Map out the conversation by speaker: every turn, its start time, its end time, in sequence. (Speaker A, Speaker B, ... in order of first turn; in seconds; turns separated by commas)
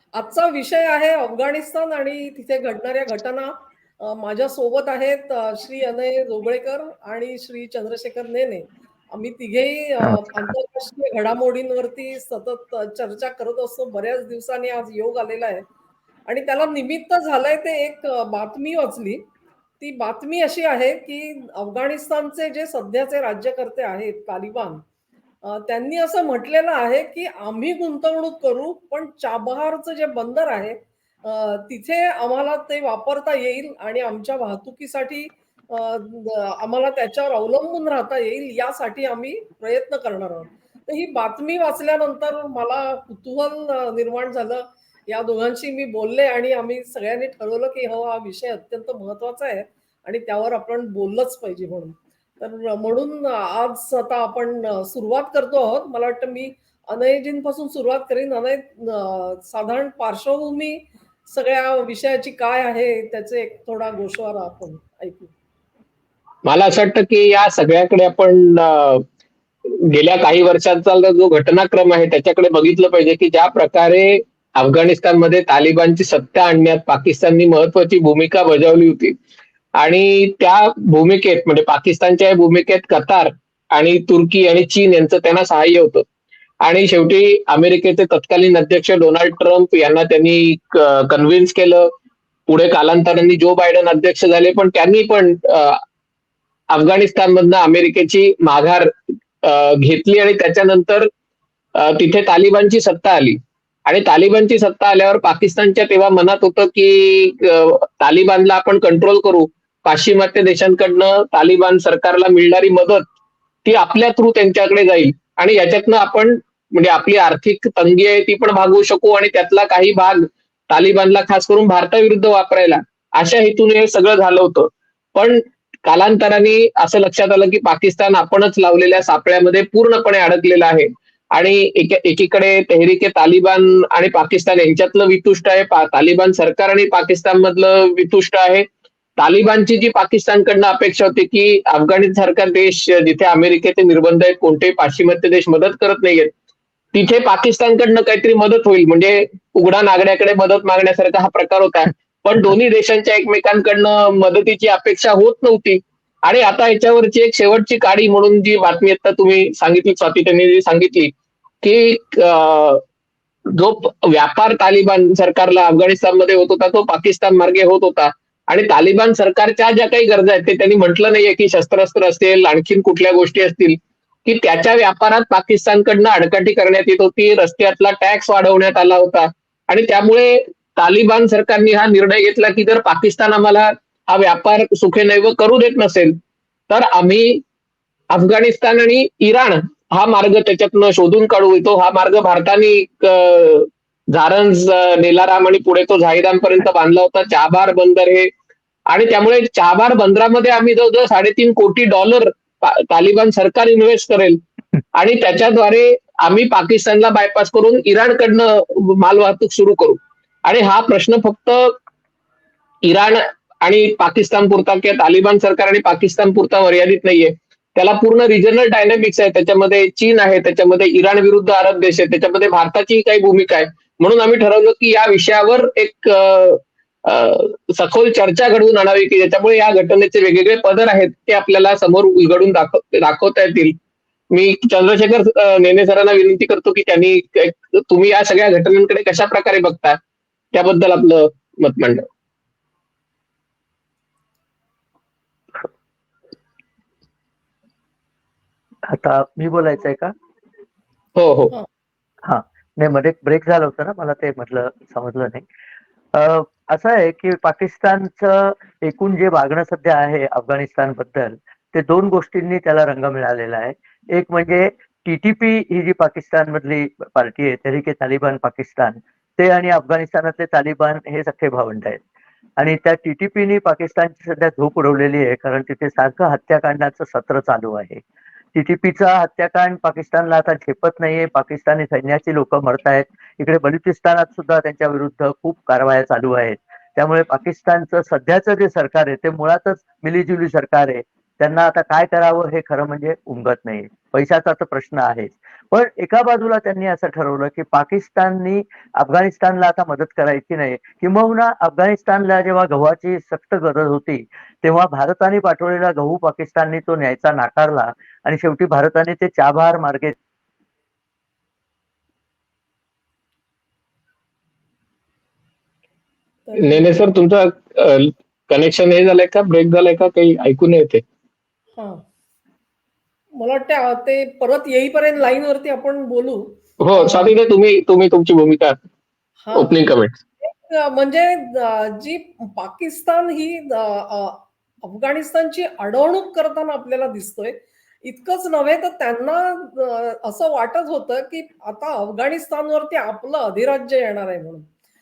Speaker A: 0.1-15.6, Speaker B: 10.0-10.5, Speaker A: 16.3-19.2, Speaker A: 19.8-24.8, Speaker A: 25.5-65.3, Speaker C: 66.5-69.0, Speaker C: 69.7-79.2, Speaker C: 79.8-86.0, Speaker C: 86.6-91.9, Speaker C: 92.5-95.8, Speaker C: 96.7-101.1, Speaker C: 101.8-113.1, Speaker C: 113.7-138.7, Speaker C: 139.2-146.3, Speaker C: 146.9-161.1, Speaker C: 161.6-162.8, Speaker C: 163.5-186.2, Speaker C: 186.7-187.4, Speaker C: 188.1-198.3, Speaker C: 198.9-204.4, Speaker C: 204.9-211.7, Speaker C: 212.8-233.8, Speaker C: 234.3-240.0, Speaker C: 240.5-242.1, Speaker B: 248.9-250.1, Speaker C: 251.2-251.5, Speaker B: 252.2-255.4, Speaker B: 256.1-272.0, Speaker B: 272.6-278.0, Speaker B: 278.6-310.1, Speaker A: 316.5-317.0, Speaker C: 316.6-321.0, Speaker A: 321.8-322.0, Speaker A: 323.4-327.3, Speaker C: 326.8-328.8, Speaker A: 329.4-329.8, Speaker C: 329.5-330.2, Speaker A: 330.4-344.7